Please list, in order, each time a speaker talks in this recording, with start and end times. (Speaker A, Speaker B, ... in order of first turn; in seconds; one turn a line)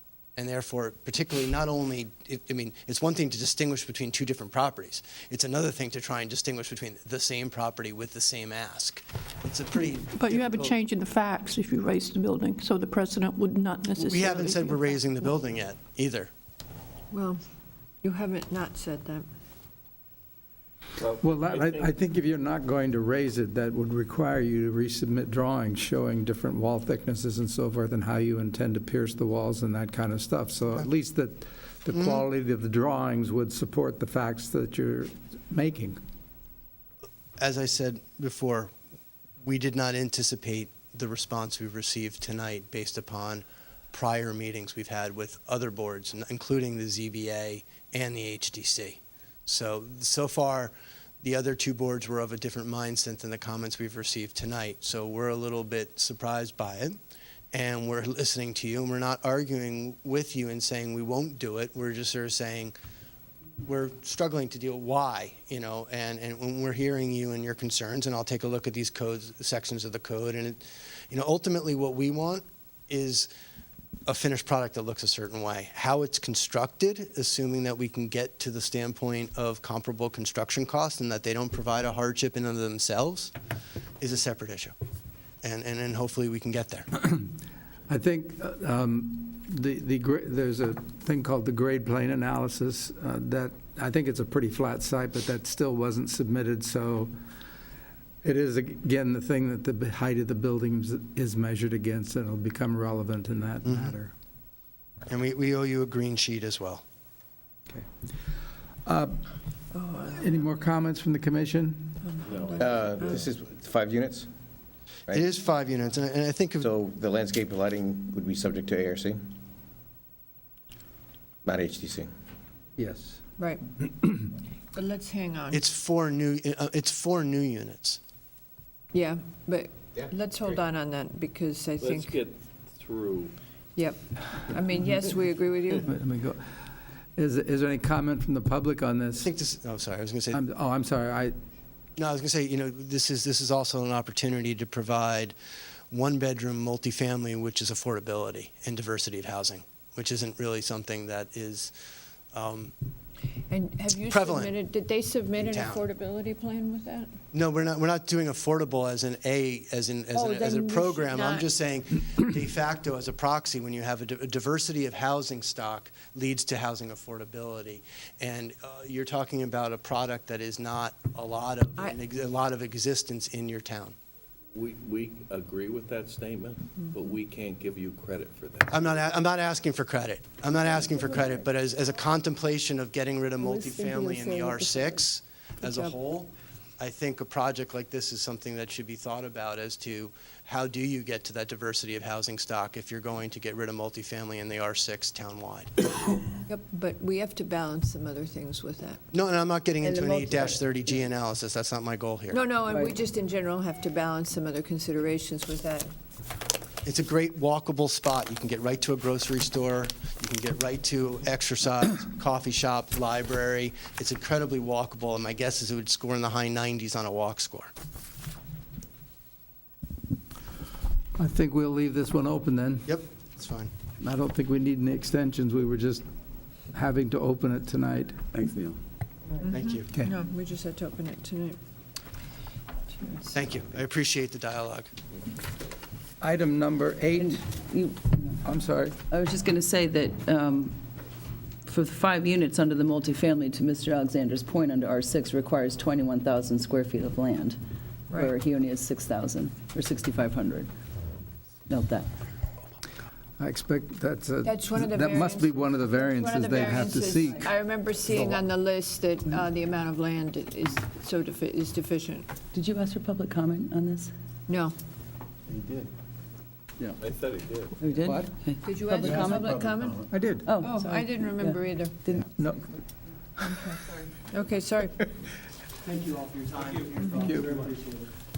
Speaker A: 0.4-10.8
Speaker B: 10.2-14.8
Speaker A: 14.0-16.3
Speaker C: 17.1-17.4
Speaker C: 18.0-19.3
Speaker D: 21.0-21.9
Speaker E: 21.2-36.0
Speaker A: 31.9-32.2
Speaker A: 37.4-38.7
Speaker A: 39.4-57.0
Speaker A: 57.5-62.7
Speaker A: 63.6-73.3
Speaker A: 74.1-83.3
Speaker A: 84.0-84.7
Speaker A: 85.4-86.9
Speaker E: 87.9-97.1
Speaker E: 98.2-104.1
Speaker A: 103.6-104.0
Speaker A: 105.1-106.8
Speaker E: 108.9-109.2
Speaker C: 109.8-110.3
Speaker E: 110.0-112.0
Speaker C: 112.0-113.2
Speaker D: 112.2-113.3
Speaker F: 112.7-114.3
Speaker A: 115.1-116.7
Speaker F: 116.6-119.3
Speaker F: 121.4-122.1
Speaker E: 122.8-123.2
Speaker C: 123.4-123.6
Speaker C: 124.7-125.6
Speaker A: 125.5-128.0
Speaker C: 128.9-132.2
Speaker D: 131.8-133.3
Speaker C: 133.8-135.9
Speaker E: 135.8-136.4
Speaker E: 137.2-139.3
Speaker A: 139.2-140.4
Speaker E: 140.3-141.3
Speaker A: 142.0-145.3
Speaker A: 145.9-151.7
Speaker A: 152.3-152.7
Speaker C: 153.5-157.2
Speaker A: 154.1-154.6
Speaker A: 155.4-155.8
Speaker A: 157.3-173.9
Speaker C: 160.1-161.5
Speaker D: 174.5-179.0
Speaker A: 178.7-195.7
Speaker C: 183.4-184.9
Speaker C: 185.6-185.9
Speaker C: 196.5-199.0
Speaker A: 199.1-202.5
Speaker C: 199.8-200.5
Speaker C: 202.3-205.9
Speaker A: 206.8-217.7
Speaker E: 221.2-222.9
Speaker A: 222.9-223.7
Speaker E: 224.0-226.0
Speaker E: 226.7-228.2
Speaker C: 229.4-231.6
Speaker A: 229.5-229.9
Speaker C: 233.0-233.3
Speaker A: 233.3-234.9
Speaker E: 236.2-237.4
Speaker G: 237.2-238.3
Speaker E: 238.4-239.0
Speaker G: 239.1-240.8
Speaker G: 241.7-247.6
Speaker G: 248.1-250.7
Speaker G: 251.7-252.1
Speaker E: 253.4-257.5
Speaker C: 254.4-262.3
Speaker E: 258.1-258.4
Speaker G: 262.5-264.1
Speaker C: 264.5-264.8
Speaker D: 267.0-267.8
Speaker G: 267.8-269.6
Speaker E: 268.1-268.3
Speaker C: 268.6-272.0
Speaker E: 270.1-270.5
Speaker G: 270.4-272.3
Speaker E: 272.4-272.6
Speaker C: 274.3-275.1
Speaker A: 275.8-278.0
Speaker E: 277.2-277.6